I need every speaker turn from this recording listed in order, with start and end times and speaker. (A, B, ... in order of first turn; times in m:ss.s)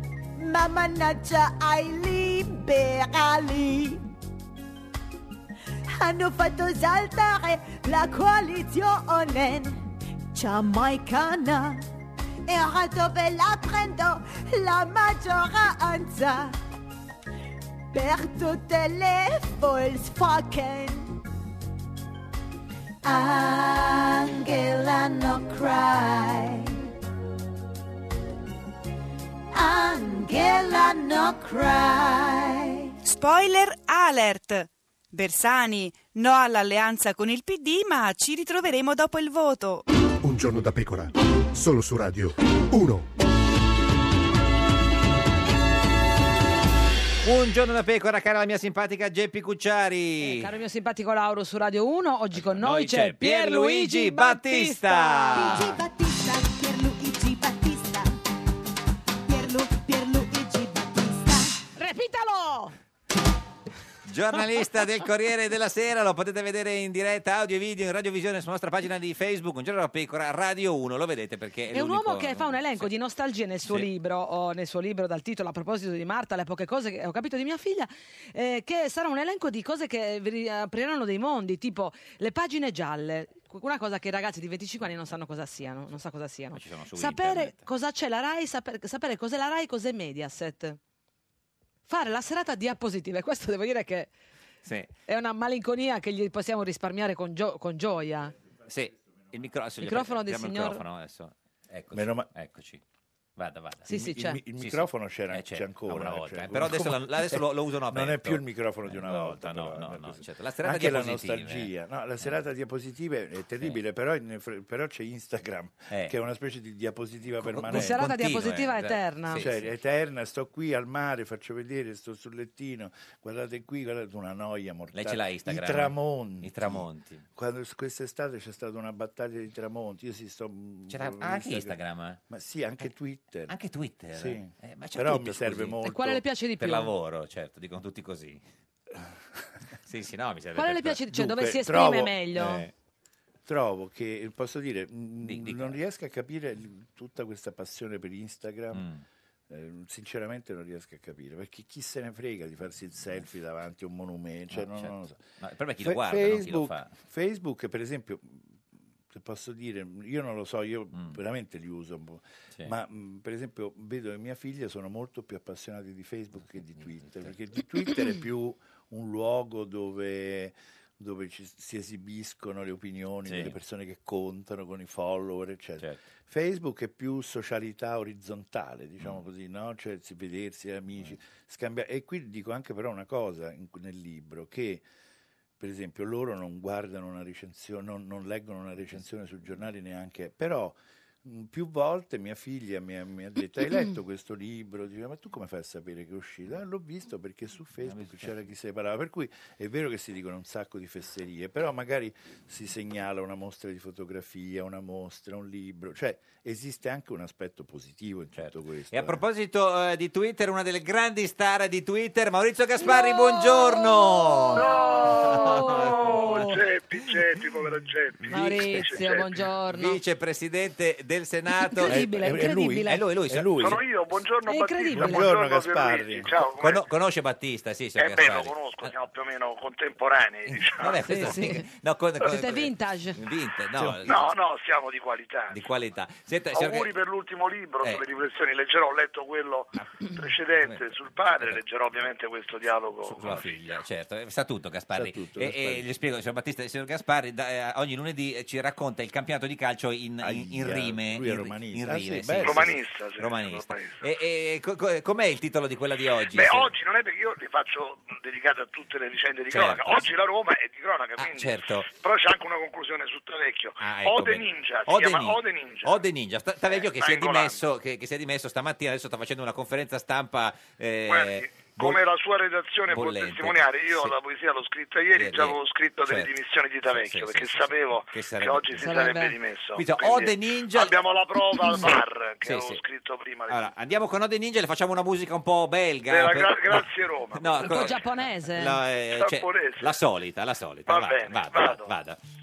0:00.4-0:04.1 A
0:06.0-0:11.8 A
0:12.5-0:16.6 A
0:17.9-0:21.2 A
0:23.0-0:26.8 A
0:29.5-0:32.9 A
0:33.0-0:39.8 B
0:40.2-0:43.1 C
0:47.2-0:50.5 D
0:50.2-0:55.6 E
0:52.3-0:55.8 D
0:55.4-0:58.2 A
0:59.2-1:01.6 A
1:01.8-1:02.7 E
1:04.0-1:12.9 D
1:11.7-1:30.8 E
1:26.5-1:27.6 D
1:31.9-1:34.1 E
1:34.6-1:34.9 D
1:35.1-1:38.3 E
1:38.7-1:42.8 D
1:39.8-1:40.8 E
1:41.9-1:42.3 F
1:43.4-1:43.9 D
1:43.9-1:44.4 E
1:43.9-1:58.1 F
1:44.6-1:51.7 D
1:57.4-1:59.7 D
1:57.7-1:59.4 E
1:59.3-2:11.8 F
2:04.9-2:07.2 D
2:10.9-2:12.2 D
2:12.3-2:13.6 F
2:13.5-2:15.8 D
2:14.1-2:16.2 F
2:15.8-2:16.9 E
2:16.6-2:18.4 D
2:19.8-2:21.0 D
2:20.6-2:22.6 E
2:21.1-2:22.2 F
2:22.3-2:22.7 D
2:23.4-2:28.8 F
2:25.2-2:25.8 D
2:28.7-2:29.0 D
2:29.5-2:35.2 F
2:34.5-2:36.9 D
2:35.8-3:04.8 F
2:46.8-2:47.3 D
2:53.2-2:53.6 D
3:05.6-3:29.2 F
3:17.9-3:18.4 D
3:28.4-3:36.6 D
3:32.8-3:36.5 E
3:34.5-3:39.3 G
3:38.3-3:38.8 D
3:38.3-3:40.0 E
3:39.7-3:42.0 D
3:41.7-3:43.0 E
3:41.8-3:43.8 F
3:42.8-3:43.8 D
3:43.6-3:46.8 G
3:44.5-3:45.3 E
3:44.9-3:46.3 F
3:46.6-3:48.9 D
3:48.0-3:51.0 G
3:50.5-3:54.3 D
3:51.1-3:51.6 E
3:52.2-3:53.2 E
3:53.8-3:54.0 F
3:54.0-3:55.6 G
3:55.5-3:56.9 D
3:56.5-4:03.5 G
4:00.6-4:01.6 D
4:03.0-4:16.7 D
4:04.9-4:05.9 F
4:10.2-4:12.8 F
4:12.4-4:14.0 G
4:16.3-4:26.0 G
4:19.5-4:20.1 D
4:21.2-4:21.9 D
4:23.8-4:32.0 D
4:26.6-4:27.6 G
4:31.1-4:43.7 G
4:32.9-4:34.2 D
4:35.2-4:36.3 D
4:36.8-4:39.0 D
4:38.8-4:39.3 E
4:39.8-4:41.0 D
4:41.6-4:42.8 D
4:43.5-4:52.2 D
4:46.1-4:47.8 G
4:47.6-4:48.8 E
4:49.1-4:49.9 G
4:50.9-4:51.9 G